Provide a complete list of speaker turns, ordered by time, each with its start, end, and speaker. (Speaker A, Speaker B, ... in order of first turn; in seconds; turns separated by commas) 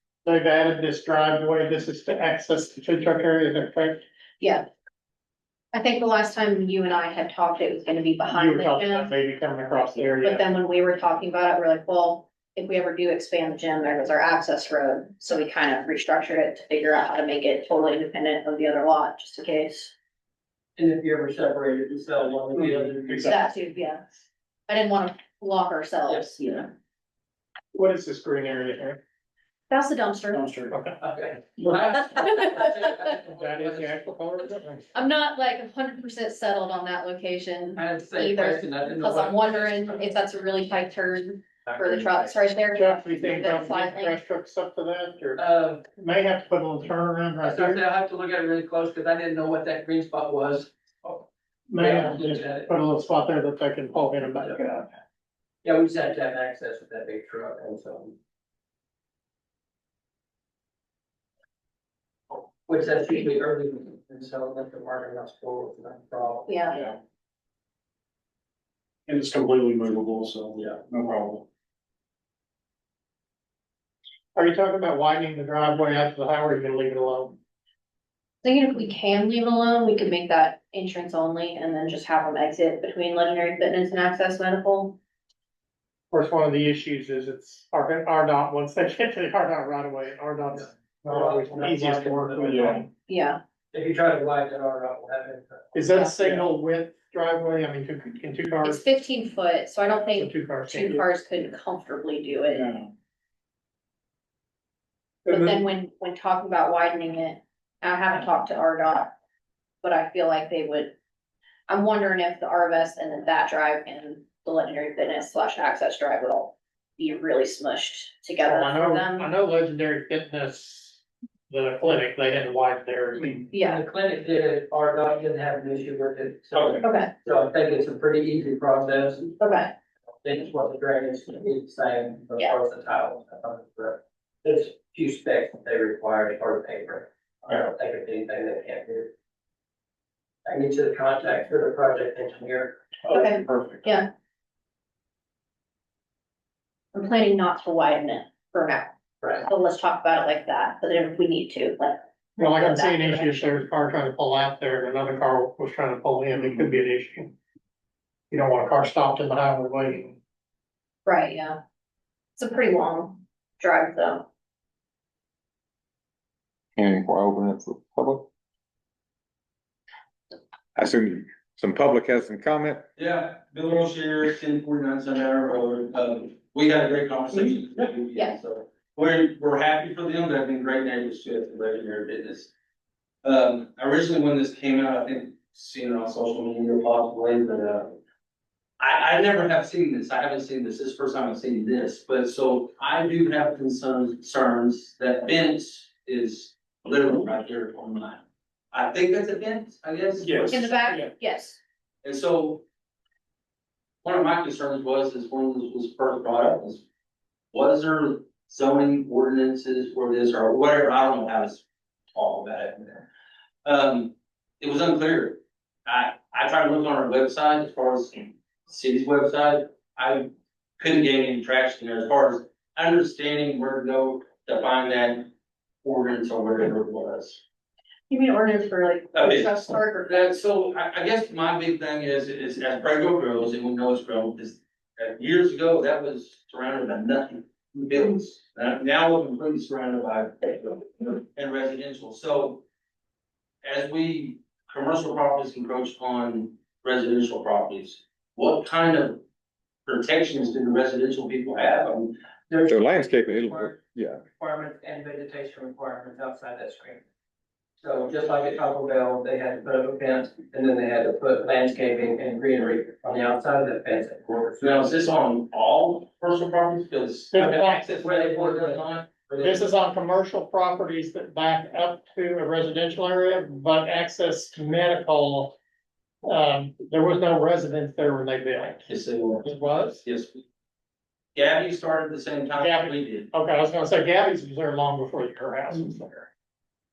Speaker A: 0.2-4.0, Speaker B: 4.4-4.7, Speaker B: 5.7-9.1, Speaker A: 8.3-10.4, Speaker B: 10.2-19.9, Speaker C: 20.8-23.3, Speaker B: 23.2-24.0, Speaker B: 24.7-26.7, Speaker C: 26.1-26.4, Speaker A: 27.7-29.0, Speaker B: 29.7-30.4, Speaker D: 30.3-30.8, Speaker A: 30.7-31.0, Speaker C: 31.0-34.5, Speaker A: 31.6-32.2, Speaker B: 32.1-32.7, Speaker A: 33.1-34.9, Speaker B: 34.9-44.1, Speaker C: 37.8-40.0, Speaker C: 41.7-42.3, Speaker A: 42.7-47.8, Speaker C: 45.4-45.8, Speaker C: 47.4-52.7, Speaker A: 51.7-54.9, Speaker C: 55.6-58.1, Speaker C: 62.7-66.6, Speaker B: 66.5-66.8, Speaker D: 69.1-71.5, Speaker A: 74.3-77.4, Speaker B: 78.4-85.0, Speaker A: 86.1-92.9, Speaker C: 90.5-92.8, Speaker B: 93.1-93.4, Speaker C: 93.7-95.7, Speaker A: 95.7-98.8, Speaker B: 98.6-102.7, Speaker A: 100.1-101.0, Speaker D: 102.5-102.9, Speaker D: 105.3-105.6, Speaker B: 105.3-109.1, Speaker B: 109.8-110.9, Speaker B: 111.7-119.3, Speaker A: 118.4-123.5, Speaker B: 123.5-123.8, Speaker C: 123.6-129.4, Speaker E: 126.5-126.8, Speaker B: 126.8-127.1, Speaker B: 129.4-129.7, Speaker C: 130.2-139.1, Speaker C: 140.4-142.8, Speaker D: 143.1-143.9, Speaker B: 143.1-144.1, Speaker B: 146.9-148.9, Speaker C: 149.2-149.5, Speaker B: 149.4-153.4, Speaker A: 152.4-157.3, Speaker A: 158.3-160.2, Speaker B: 161.0-161.6, Speaker B: 162.4-164.2, Speaker F: 166.8-168.3, Speaker F: 170.8-172.8, Speaker E: 172.9-182.5, Speaker E: 183.2-188.0, Speaker E: 188.8-200.7, Speaker D: 200.2-201.1, Speaker B: 200.5-201.6, Speaker E: 202.0-202.6, Speaker E: 204.0-206.8, Speaker E: 207.5-213.1, Speaker E: 213.6-220.3, Speaker E: 220.8-225.3, Speaker E: 225.8-227.4, Speaker B: 228.1-230.3, Speaker E: 229.1-242.6, Speaker E: 243.6-249.2, Speaker E: 249.8-252.2, Speaker C: 252.5-253.8, Speaker F: 252.7-254.2, Speaker C: 254.3-257.0, Speaker C: 257.8-264.9, Speaker E: 264.6-269.7, Speaker A: 267.3-268.0, Speaker C: 267.4-269.5, Speaker A: 269.4-275.6, Speaker A: 276.2-278.9, Speaker E: 278.9-279.5, Speaker A: 279.4-280.0, Speaker E: 280.0-280.4, Speaker E: 281.3-283.3, Speaker A: 282.6-286.3